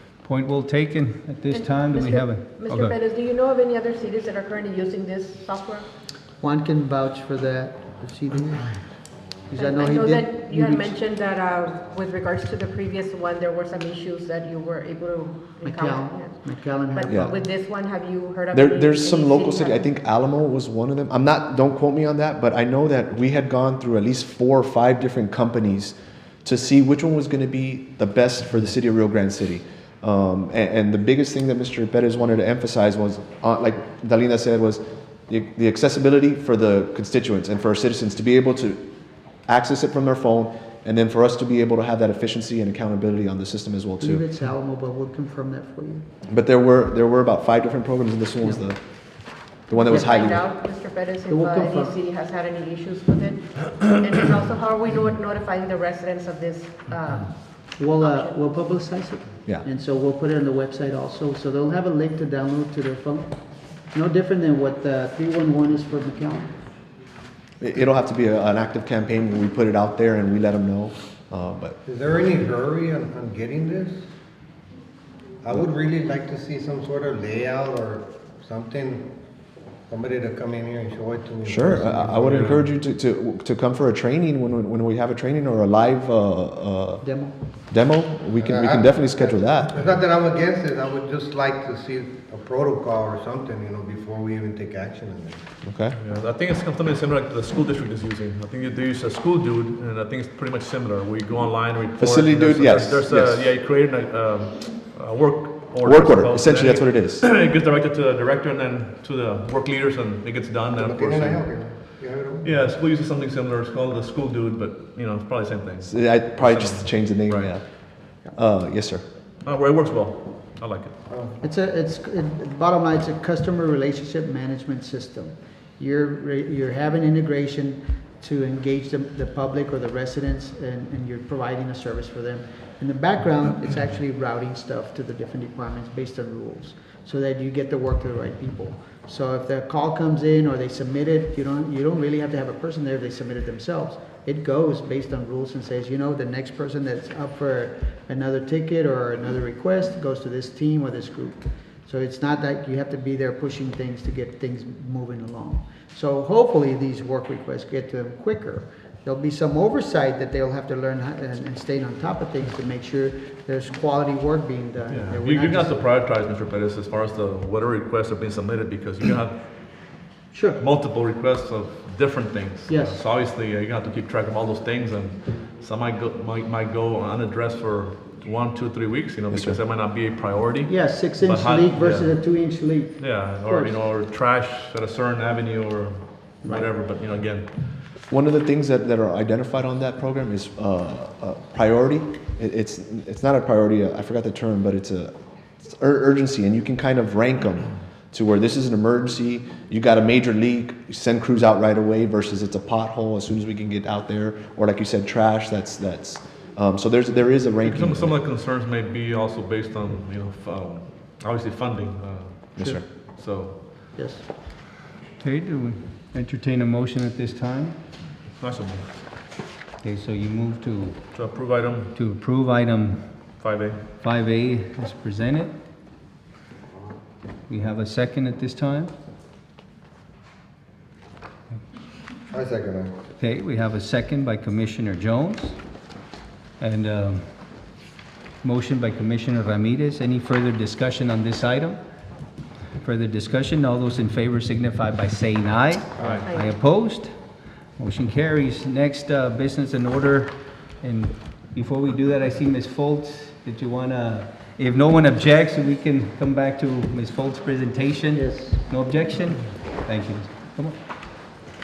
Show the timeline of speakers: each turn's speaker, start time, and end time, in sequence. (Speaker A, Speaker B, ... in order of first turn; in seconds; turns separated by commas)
Speaker A: 0.2-3.0, Speaker B: 1.5-5.9, Speaker C: 6.4-8.8, Speaker C: 9.5-10.9, Speaker B: 9.5-19.9, Speaker C: 15.6-17.4, Speaker D: 17.1-17.3, Speaker D: 18.5-38.8, Speaker D: 39.5-44.2, Speaker C: 44.0-46.0, Speaker D: 46.3-48.8, Speaker D: 49.7-50.5, Speaker B: 49.7-57.4, Speaker C: 51.2-52.0, Speaker C: 57.8-63.3, Speaker B: 57.9-58.4, Speaker C: 63.9-66.5, Speaker D: 67.6-71.8, Speaker E: 71.8-74.0, Speaker E: 75.4-79.0, Speaker E: 79.9-82.6, Speaker D: 81.4-87.0, Speaker C: 87.0-87.3, Speaker D: 87.7-89.8, Speaker E: 88.4-95.4, Speaker D: 95.6-96.0, Speaker F: 96.0-111.4, Speaker D: 102.0-103.5, Speaker D: 105.8-107.2, Speaker E: 110.7-112.6, Speaker F: 112.4-117.5, Speaker D: 115.8-117.7, Speaker D: 118.3-119.0, Speaker F: 119.4-120.9, Speaker E: 121.1-121.4, Speaker C: 121.4-165.8, Speaker F: 164.9-169.4, Speaker C: 170.3-170.6, Speaker F: 170.6-182.1, Speaker C: 172.7-173.0, Speaker D: 179.3-179.6, Speaker C: 180.7-183.8, Speaker F: 183.0-187.5, Speaker C: 186.4-186.7, Speaker D: 188.1-208.1, Speaker F: 207.6-213.6, Speaker D: 212.6-212.8, Speaker C: 213.9-214.3, Speaker A: 215.2-217.8, Speaker F: 218.4-218.9, Speaker A: 219.8-221.0, Speaker F: 221.1-221.9, Speaker A: 221.9-223.0, Speaker F: 223.4-223.8, Speaker A: 224.0-225.5, Speaker A: 227.5-228.9, Speaker E: 232.3-233.0, Speaker A: 233.2-235.6, Speaker A: 236.6-237.2, Speaker A: 238.4-241.8, Speaker A: 242.8-247.1, Speaker F: 246.0-246.2, Speaker B: 246.2-246.5, Speaker A: 247.8-260.8, Speaker C: 258.1-258.6